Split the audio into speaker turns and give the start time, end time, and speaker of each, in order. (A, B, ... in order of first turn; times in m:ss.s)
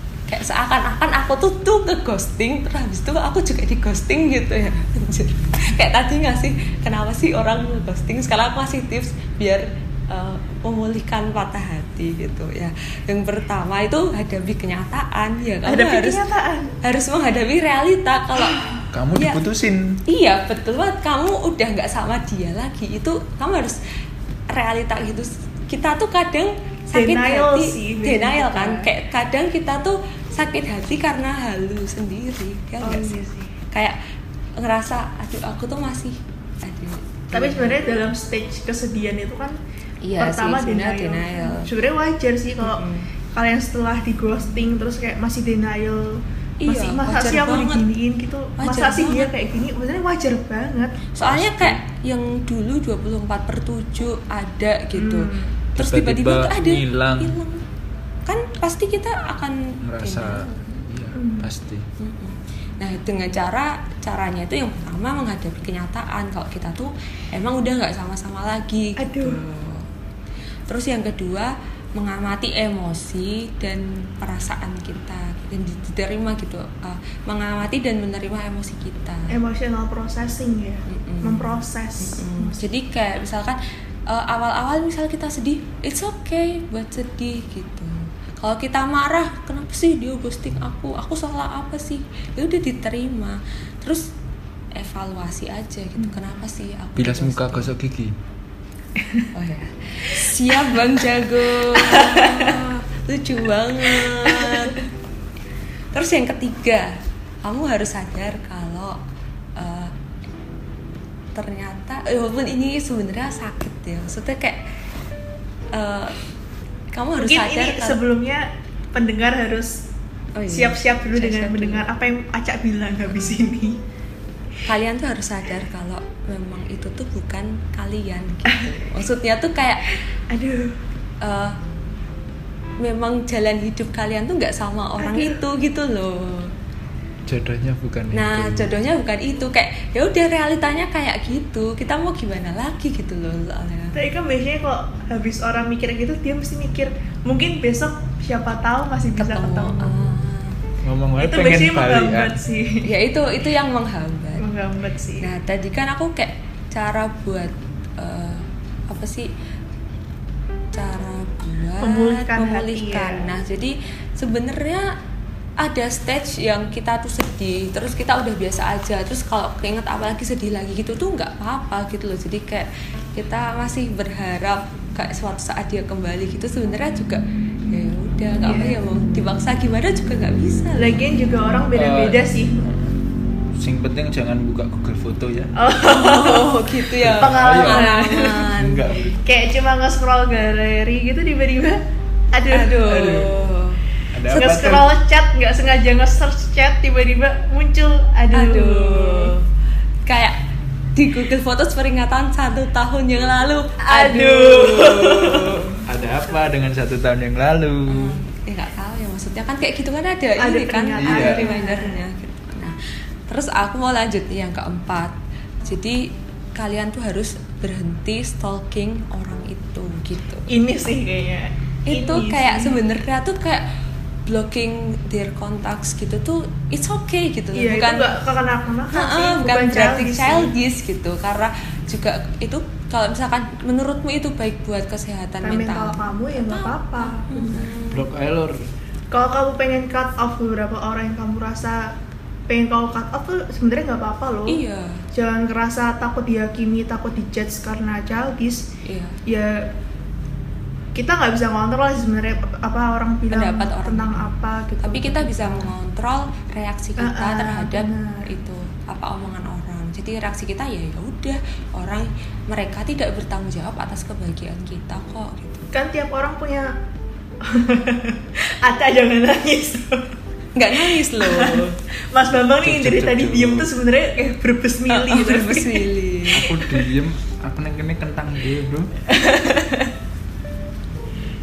0:00.3-0:16.2 A
0:15.6-0:16.7 B
0:16.8-0:19.4 A
0:18.4-0:18.8 B
0:18.9-0:20.0 C
0:20.0-0:23.8 A
0:24.5-0:33.2 A
0:26.9-0:28.9 B
0:32.8-0:33.5 B
0:33.7-0:34.0 A
0:34.6-0:37.8 A
0:37.3-0:39.6 B
0:40.0-0:41.7 A
0:40.2-0:51.0 B
0:42.6-0:43.1 A
0:46.6-0:47.9 A
0:48.6-0:49.3 A
0:51.1-0:57.6 A
0:51.2-0:51.8 C
0:54.9-0:55.6 B
0:55.8-0:57.4 C
0:58.2-1:00.8 A
0:59.8-1:01.8 C
1:01.1-1:01.5 B
1:02.0-1:09.9 A
1:09.0-1:09.4 B
1:10.7-1:19.3 A
1:19.3-1:22.7 B
1:20.9-1:34.1 A
1:34.7-1:37.7 A
1:37.0-1:38.2 C
1:39.0-1:39.3 B
1:39.3-1:44.8 A
1:41.7-1:42.6 B
1:44.0-1:44.8 B
1:45.9-1:49.0 A
1:49.6-1:49.9 A
1:51.3-1:54.6 A
1:55.7-1:56.2 A
1:56.9-1:58.0 A
1:57.2-1:59.8 B
2:00.4-2:01.9 A
2:00.5-2:03.8 B
2:04.6-2:09.9 A
2:08.5-2:08.7 B
2:10.3-2:10.8 B
2:11.2-2:11.6 A
2:12.8-2:16.5 A
2:15.0-2:15.4 B
2:17.2-2:18.7 C
2:18.1-2:24.0 A
2:23.9-2:29.9 B
2:29.2-2:30.6 A
2:30.8-2:32.4 C
2:31.2-2:32.9 B
2:32.8-2:34.4 A
2:34.4-2:35.3 B
2:35.2-2:39.3 A
2:40.7-2:44.9 A
2:41.8-2:43.3 B
2:45.6-3:01.0 A
2:58.4-2:58.8 B
3:00.8-3:02.7 B
3:01.7-3:03.0 C
3:03.6-3:05.5 C
3:05.6-3:08.5 B
3:05.8-3:09.1 A
3:07.0-3:07.9 C
3:08.5-3:09.2 C
3:09.2-3:11.8 B
3:12.3-3:13.3 B
3:12.5-3:13.8 A
3:12.9-3:13.3 C
3:14.1-3:14.9 C
3:14.3-3:19.3 B
3:18.3-3:19.5 A
3:20.0-3:20.4 A
3:20.9-3:25.2 A
3:23.8-3:25.7 B
3:25.2-3:28.2 C
3:27.9-3:32.8 A
3:30.4-3:32.0 B
3:31.0-3:31.5 C
3:33.3-3:40.5 A
3:40.5-3:42.8 B
3:41.9-3:43.7 A
3:44.2-3:48.2 A
3:47.5-3:50.5 B
3:48.9-3:58.1 A
3:55.4-3:57.7 B
3:57.9-3:58.6 C
3:59.1-4:01.9 B
4:02.5-4:04.6 B
4:04.5-4:05.0 A
4:05.1-4:08.6 B
4:08.8-4:09.2 A
4:09.2-4:09.7 B
4:10.9-4:15.7 B
4:13.3-4:14.3 A
4:14.8-4:25.7 A
4:17.0-4:18.3 B
4:25.7-4:26.7 B
4:27.4-4:30.2 B
4:30.5-4:31.8 A
4:30.7-4:35.9 B
4:32.6-4:33.7 C
4:34.9-4:36.5 A
4:36.3-4:38.9 C
4:39.1-4:39.9 B